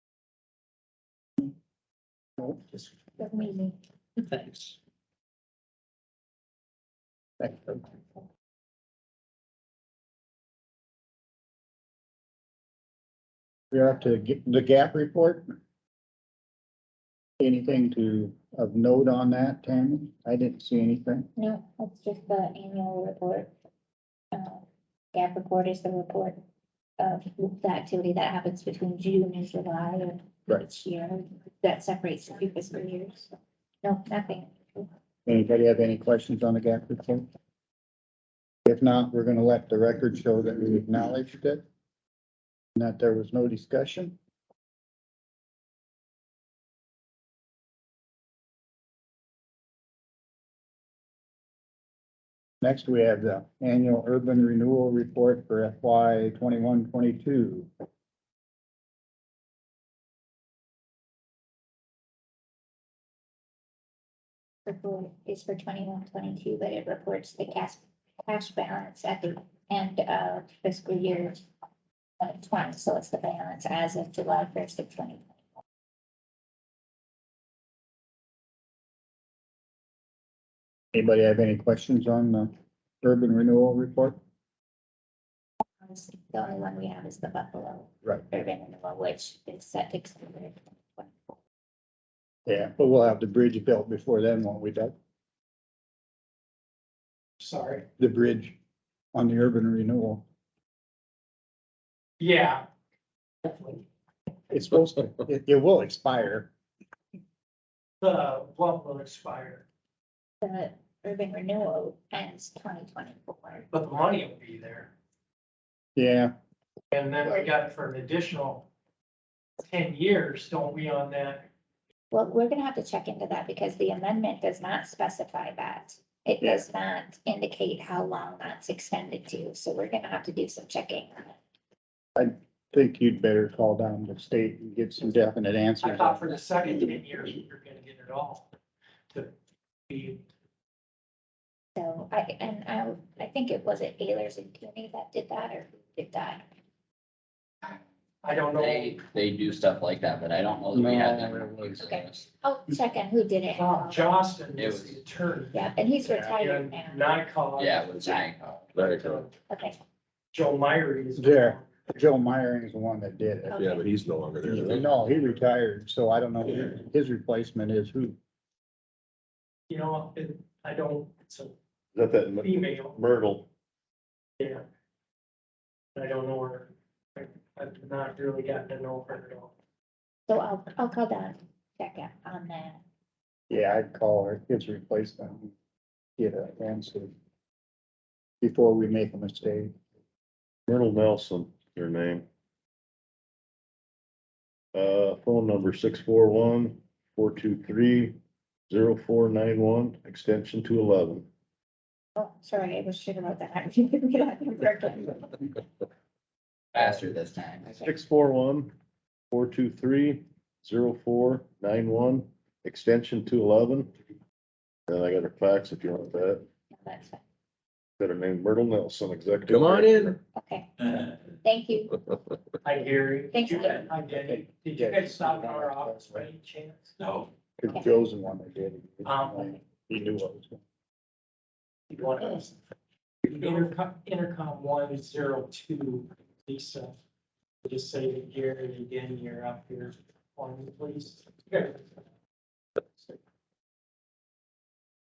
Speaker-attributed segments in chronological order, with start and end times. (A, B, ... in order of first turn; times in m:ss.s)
0:03.2-0:03.8 A
0:07.4-0:07.8 B
0:13.7-0:15.6 B
0:17.4-0:21.3 B
0:21.4-0:23.5 A
0:24.3-0:26.4 A
0:27.0-0:34.9 A
0:35.3-0:37.3 B
0:38.7-0:41.6 B
0:42.8-0:44.2 B
0:52.6-0:57.7 B
1:04.7-1:11.4 A
1:12.2-1:15.3 A
1:20.9-1:22.5 B
1:23.0-1:24.2 B
1:25.8-1:31.4 A
1:32.5-1:34.9 B
1:37.4-1:37.9 C
1:38.0-1:38.6 B
1:39.1-1:40.2 B
1:42.2-1:42.7 C
1:43.4-1:43.8 C
1:44.5-1:46.5 B
1:48.0-1:49.6 C
1:50.4-1:53.6 A
1:53.7-1:54.9 C
1:56.0-1:56.3 B
1:56.9-1:58.7 C
1:59.6-2:01.5 C
2:02.1-2:11.4 A
2:12.2-2:16.4 B
2:15.8-2:18.5 C
2:19.9-2:20.3 C
2:21.8-2:26.4 A
2:28.2-2:29.0 C
2:28.5-2:32.3 D
2:30.7-2:31.6 B
2:31.8-2:34.1 A
2:33.6-2:35.7 C
2:34.6-2:35.0 D
2:35.5-2:37.1 A
2:36.3-2:38.2 C
2:37.6-2:38.6 D
2:38.7-2:39.1 E
2:38.8-2:39.3 C
2:39.5-2:39.8 A
2:40.3-2:41.7 C
2:41.2-2:43.6 B
2:43.5-2:43.9 A
2:43.5-2:44.9 E
2:44.4-2:48.2 B
2:49.7-2:51.6 C
2:51.9-2:53.5 F
2:52.4-2:53.0 C
2:54.4-2:54.6 C
2:56.0-2:59.5 C
3:00.3-3:02.8 A
3:03.5-3:05.5 B
3:06.2-3:07.1 B
3:08.4-3:09.7 B
3:10.7-3:12.3 F
3:14.7-3:21.3 F
3:22.2-3:25.5 A
3:26.7-3:27.7 D
3:27.6-3:28.0 A
3:27.7-3:28.7 F
3:29.3-3:33.9 F
3:34.9-3:36.5 F
3:36.8-3:37.2 A
3:38.0-3:40.2 F
3:39.5-3:40.2 E
3:40.4-3:42.0 A
3:42.6-3:47.3 C
3:43.3-3:43.9 A
3:44.1-3:46.3 B
3:47.6-3:50.6 B
3:49.0-3:49.6 C
3:51.9-3:52.6 C
3:53.2-3:57.0 C
3:57.6-4:01.9 C